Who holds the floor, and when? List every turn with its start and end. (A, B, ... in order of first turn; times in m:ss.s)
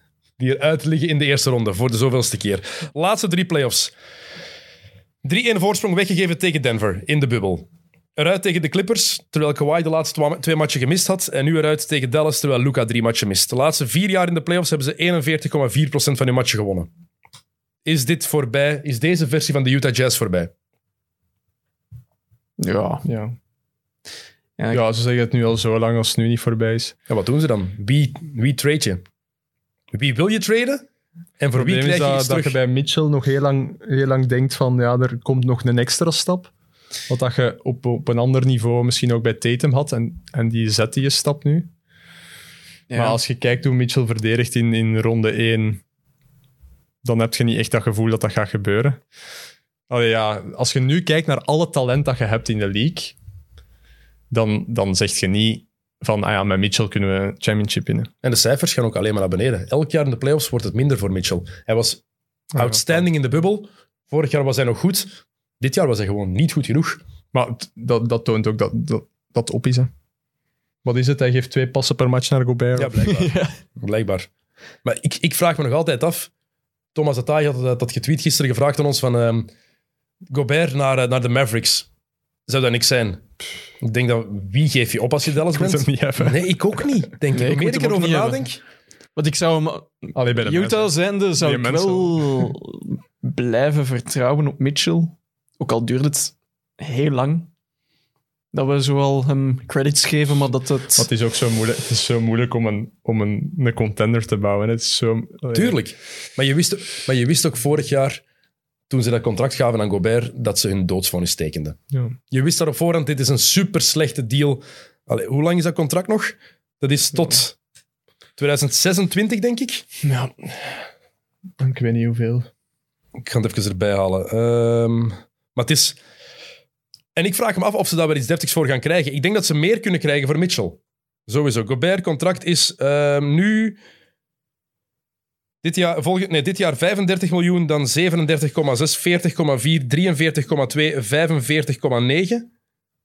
0:00.4-0:03.9 A
0:05.2-0:16.9 A
0:17.8-0:20.5 A
0:22.6-0:23.0 B
0:23.0-0:23.4 C
0:24.6-0:24.8 B
0:24.7-0:26.9 C
0:27.1-0:29.0 A
0:29.9-0:30.8 A
0:31.4-0:32.6 A
0:31.5-0:36.5 C
0:37.1-0:41.7 C
0:42.9-0:43.2 B
0:42.9-0:45.8 C
0:47.0-0:49.0 C
0:49.9-0:53.1 C
0:54.3-0:58.1 C
0:58.2-1:02.0 A
1:02.5-1:07.0 A
1:02.6-1:03.0 C
1:07.3-1:09.9 C
1:10.8-1:13.2 C
1:12.8-1:14.3 A
1:13.0-1:13.5 B
1:14.8-1:16.3 A
1:16.9-1:19.5 A
1:20.3-1:21.9 A
1:22.5-1:23.2 A
1:23.8-1:28.6 A
1:25.4-1:26.9 C
1:27.3-1:28.5 B
1:29.2-1:37.5 B
1:30.1-1:32.5 C
1:38.5-1:41.1 B
1:41.0-1:45.8 C
1:45.5-1:48.2 A
1:48.9-1:51.8 A
1:52.3-1:57.6 A
1:58.4-1:59.8 A
2:00.0-2:00.8 C
2:01.6-2:02.5 C
2:03.2-2:06.0 A
2:07.1-2:13.8 A
2:15.6-2:22.5 A